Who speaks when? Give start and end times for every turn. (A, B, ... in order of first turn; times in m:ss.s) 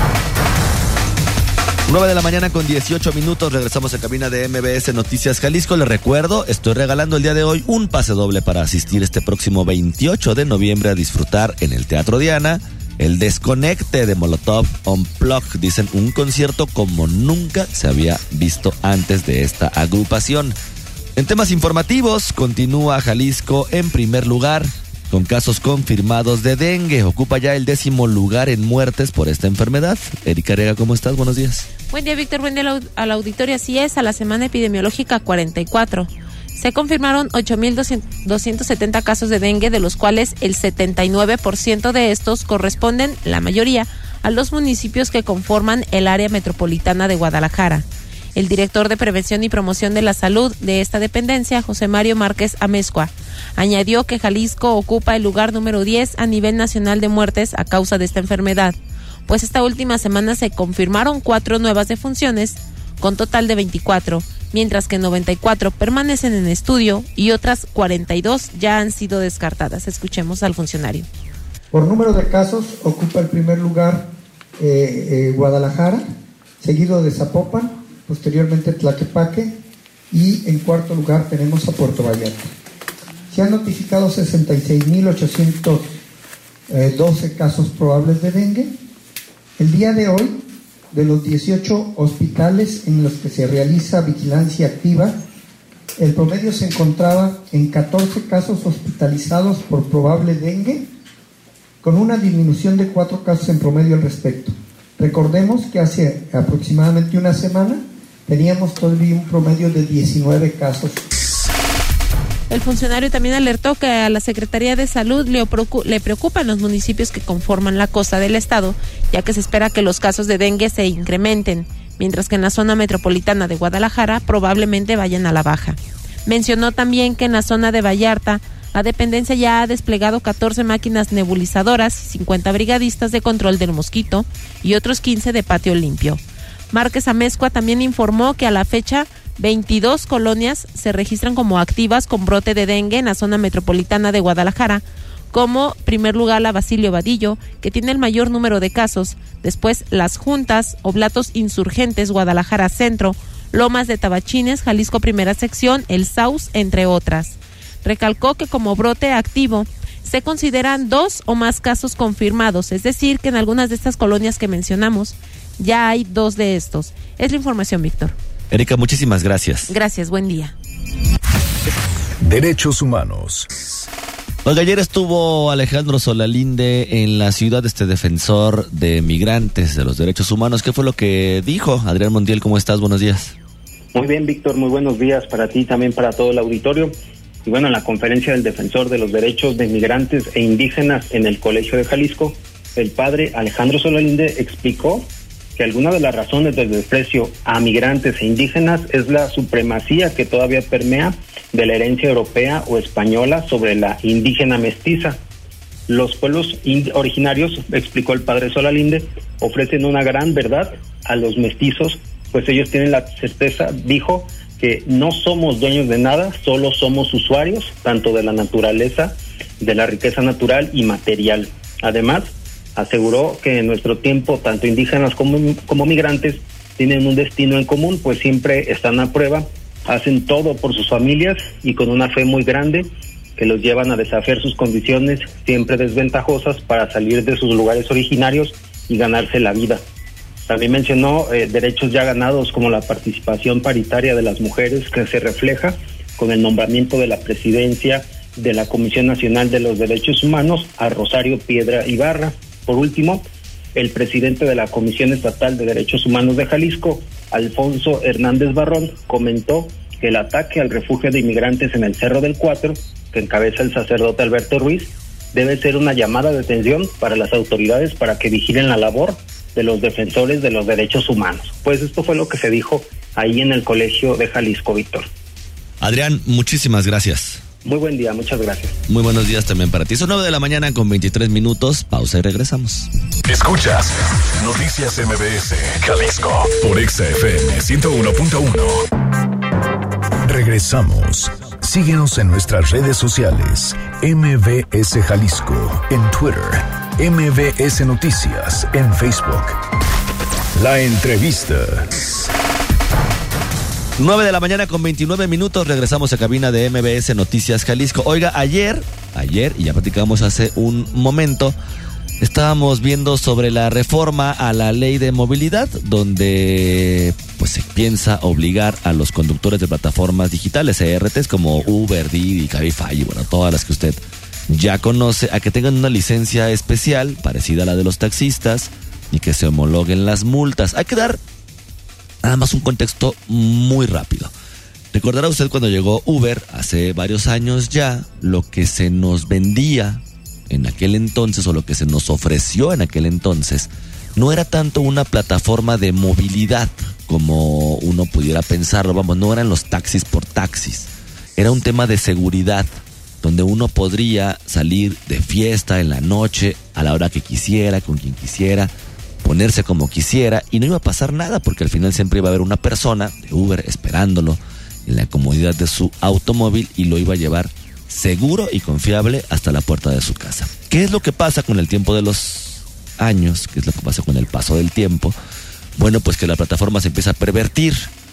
0:01.9-0:20.6 A
0:21.2-0:31.7 A
0:31.9-0:58.8 B
0:59.3-1:11.1 B
1:11.7-1:16.1 C
1:16.6-1:19.6 C
1:20.1-1:22.5 C
1:23.3-1:26.0 C
1:26.7-1:28.8 C
1:29.6-1:30.4 C
1:30.9-1:35.2 C
1:36.0-1:40.9 C
1:41.8-1:51.0 C
1:52.5-2:16.2 B
2:16.7-2:48.2 B
2:48.5-2:49.7 A
2:49.7-2:50.5 B
2:52.2-2:53.5 D
2:54.4-3:03.4 A
3:03.9-3:25.2 E
3:25.9-3:59.8 E
4:00.5-4:35.1 E
4:35.8-4:37.4 A
4:37.6-4:38.8 E
4:38.9-4:42.9 A
4:43.3-4:48.8 F
4:50.3-4:59.6 D
5:00.6-5:02.3 D
5:04.0-5:11.6 A
5:12.2-5:31.2 A
5:32.2-5:34.3 A
5:34.9-5:52.7 A
5:53.2-5:58.7 A
5:59.2-6:15.1 A
6:15.8-6:17.9 A